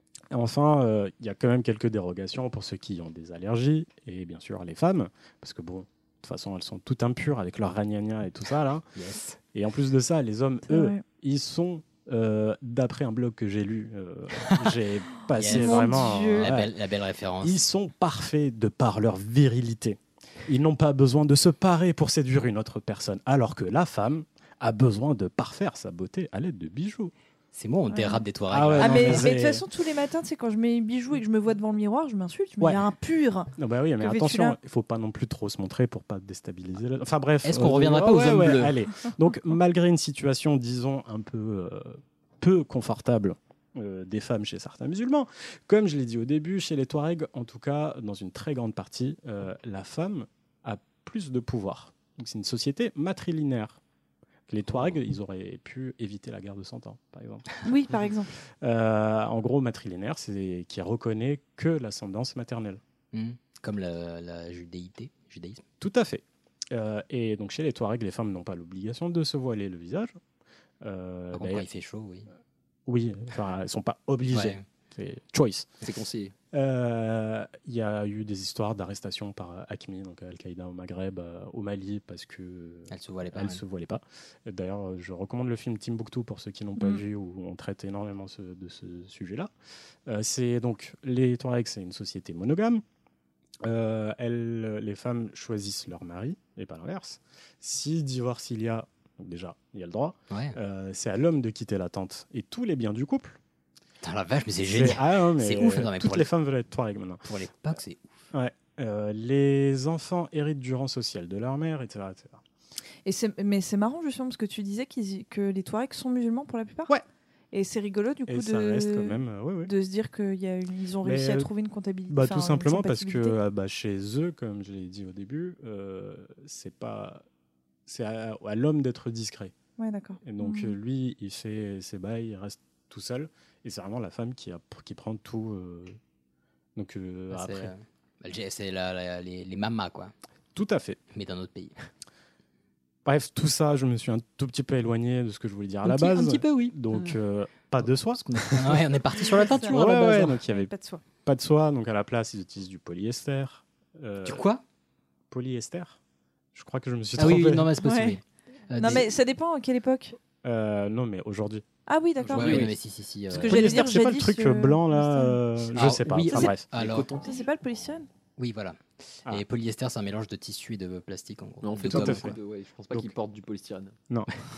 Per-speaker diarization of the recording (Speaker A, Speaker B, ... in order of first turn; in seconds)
Speaker A: 0.3-8.8, 9.5-16.7, 17.4-27.1, 28.5-29.6, 33.5-53.8, 54.5-57.5, 58.6-62.8, 65.8-70.2, 70.8-71.7, 72.8-75.7, 76.5-89.5, 90.1-92.8, 93.6-103.4, 104.7-107.3, 108.3-112.4, 118.3-119.7, 121.0-121.5, 122.1-127.2, 127.9-129.5, 130.2-136.0, 136.8-137.7, 140.5-141.0, 143.0-150.7, 151.2-154.4, 155.3-156.0, 156.5-157.7, 160.4-161.7, 162.3-162.7, 163.4-166.7, 171.8-172.4
Speaker B: 8.9-9.4, 14.4-14.8, 15.3-17.6, 27.5-29.4, 37.4-38.8, 54.6-55.0, 63.1-65.6, 71.3-72.3, 74.3-74.6, 82.9-83.6, 100.3-100.6, 104.0-106.3, 107.2-108.2, 137.3-140.1, 141.1-141.7, 145.8-147.2, 147.8-150.4, 154.2-154.6, 157.1-159.1, 162.3-163.8, 165.7-167.1, 168.4-172.3
Speaker C: 10.7-11.0, 15.4-16.5, 27.9-28.2, 28.8-34.5, 57.6-58.3, 113.0-116.9, 117.5-123.4, 129.8-130.7, 149.5-149.8, 150.5-151.0, 157.8-158.2, 158.7-160.2, 161.9-162.7, 163.3-165.4, 166.3-166.5, 167.2-168.1
Speaker D: 75.8-76.3, 162.3-162.7, 166.7-167.4, 171.6-173.9